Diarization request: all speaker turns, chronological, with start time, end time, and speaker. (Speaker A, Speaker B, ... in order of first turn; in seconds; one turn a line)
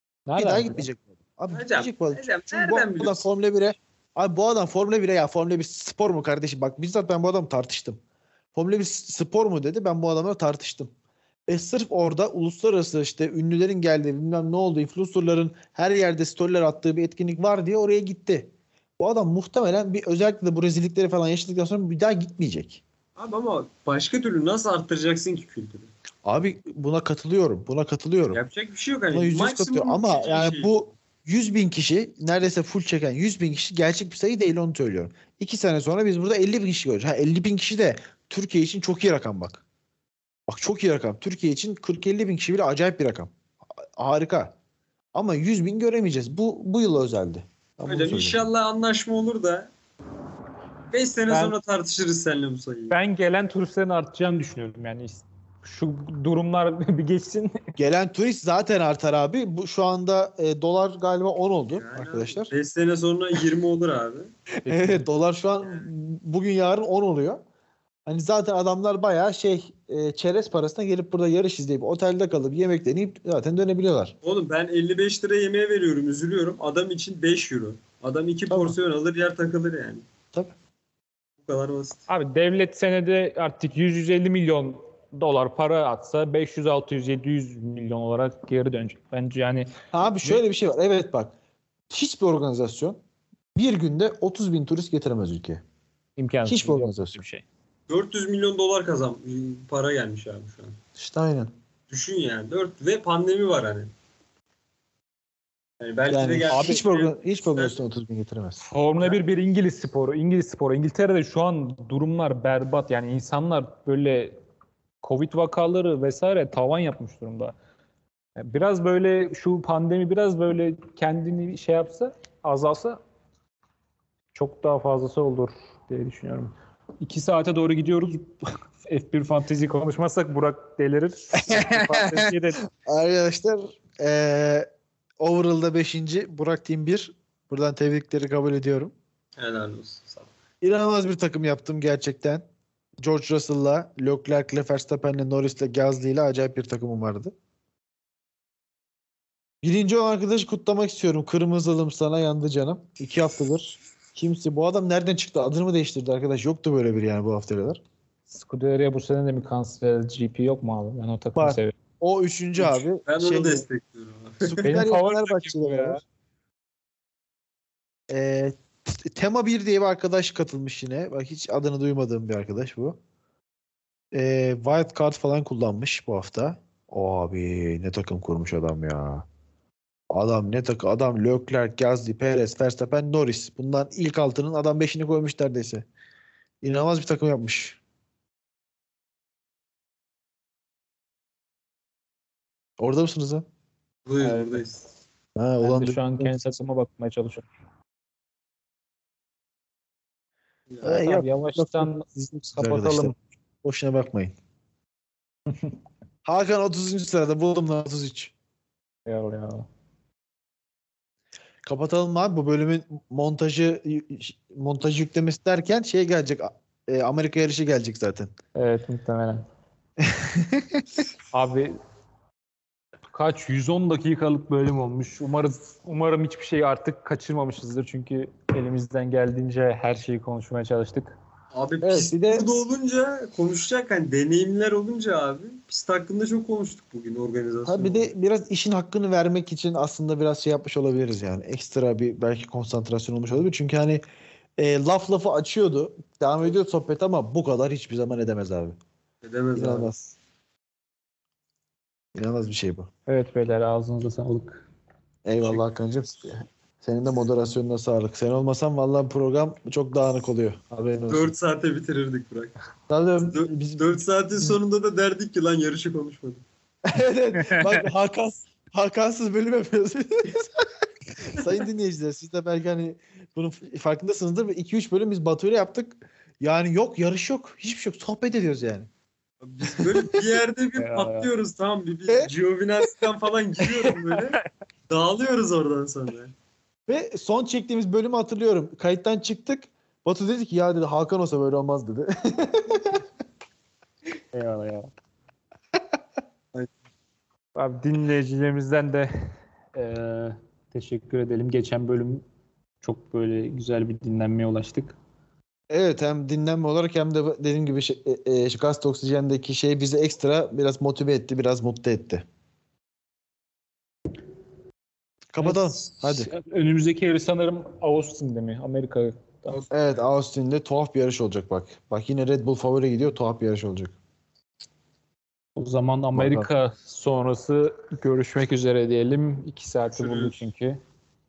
Speaker A: 0.3-0.8
Speaker B: 0.3-8.0
Speaker C: 1.5-3.3
Speaker B: 8.5-10.9
Speaker B: 11.5-22.8
Speaker C: 23.1-25.9
Speaker B: 26.2-28.4
Speaker C: 28.3-30.7
Speaker B: 29.1-39.6
Speaker B: 40.5-43.3
Speaker B: 43.9-44.5
Speaker B: 45.1-48.5
Speaker C: 47.8-49.7
Speaker C: 50.9-53.0
Speaker A: 51.3-51.5
Speaker A: 52.9-57.7
Speaker B: 57.8-62.5
Speaker C: 61.7-64.3
Speaker A: 64.6-65.0
Speaker B: 64.7-67.4
Speaker B: 68.0-74.1
Speaker C: 74.2-80.0
Speaker B: 78.5-78.8
Speaker C: 81.4-82.0
Speaker A: 82.1-90.4
Speaker B: 89.9-91.3
Speaker B: 91.9-93.0
Speaker B: 93.5-95.6
Speaker A: 96.2-97.4
Speaker B: 96.5-97.2
Speaker C: 97.9-100.8
Speaker B: 101.0-101.5
Speaker C: 101.9-103.9
Speaker C: 105.8-107.8
Speaker B: 106.1-108.6
Speaker A: 106.5-106.8
Speaker A: 108.6-114.4
Speaker A: 115.0-117.5
Speaker A: 118.4-123.0
Speaker A: 124.3-132.6
Speaker B: 131.3-134.7
Speaker B: 135.2-138.9
Speaker C: 139.4-140.3
Speaker B: 140.6-142.4
Speaker B: 143.0-147.3
Speaker B: 149.6-157.8
Speaker A: 158.3-161.7
Speaker B: 161.3-163.6
Speaker C: 162.6-164.6
Speaker B: 164.4-166.0
Speaker A: 164.6-166.0
Speaker B: 168.1-173.0
Speaker B: 174.1-179.2
Speaker B: 180.1-185.8
Speaker B: 186.6-187.8
Speaker B: 192.8-193.4
Speaker C: 194.1-194.8
Speaker A: 194.2-194.6
Speaker B: 195.3-196.3
Speaker A: 195.6-197.4
Speaker C: 200.7-200.9
Speaker B: 200.8-204.3
Speaker A: 200.9-203.2
Speaker B: 206.2-208.3
Speaker A: 209.1-209.7
Speaker B: 211.6-218.3
Speaker A: 218.6-219.4
Speaker B: 220.0-220.8
Speaker A: 221.3-221.8
Speaker A: 223.1-231.2
Speaker C: 231.5-238.1
Speaker B: 231.8-232.5
Speaker B: 237.7-244.0
Speaker B: 244.6-248.8
Speaker C: 249.2-249.9
Speaker B: 249.6-250.1
Speaker B: 252.2-252.9
Speaker A: 253.1-254.6
Speaker B: 255.2-261.3
Speaker C: 261.1-262.5
Speaker B: 262.9-264.5
Speaker C: 263.3-266.4
Speaker B: 266.9-270.7
Speaker A: 267.4-267.9
Speaker B: 271.2-278.9
Speaker C: 279.4-284.4
Speaker A: 280.8-281.3
Speaker C: 284.9-286.3
Speaker B: 286.9-293.0
Speaker A: 294.3-294.9
Speaker A: 297.5-299.1
Speaker A: 299.7-302.2
Speaker A: 302.8-305.0
Speaker B: 305.7-312.2
Speaker B: 315.3-316.3
Speaker A: 315.4-319.6
Speaker C: 319.5-320.0
Speaker B: 319.7-323.9
Speaker A: 325.6-330.8
Speaker B: 326.1-326.5
Speaker C: 329.9-330.4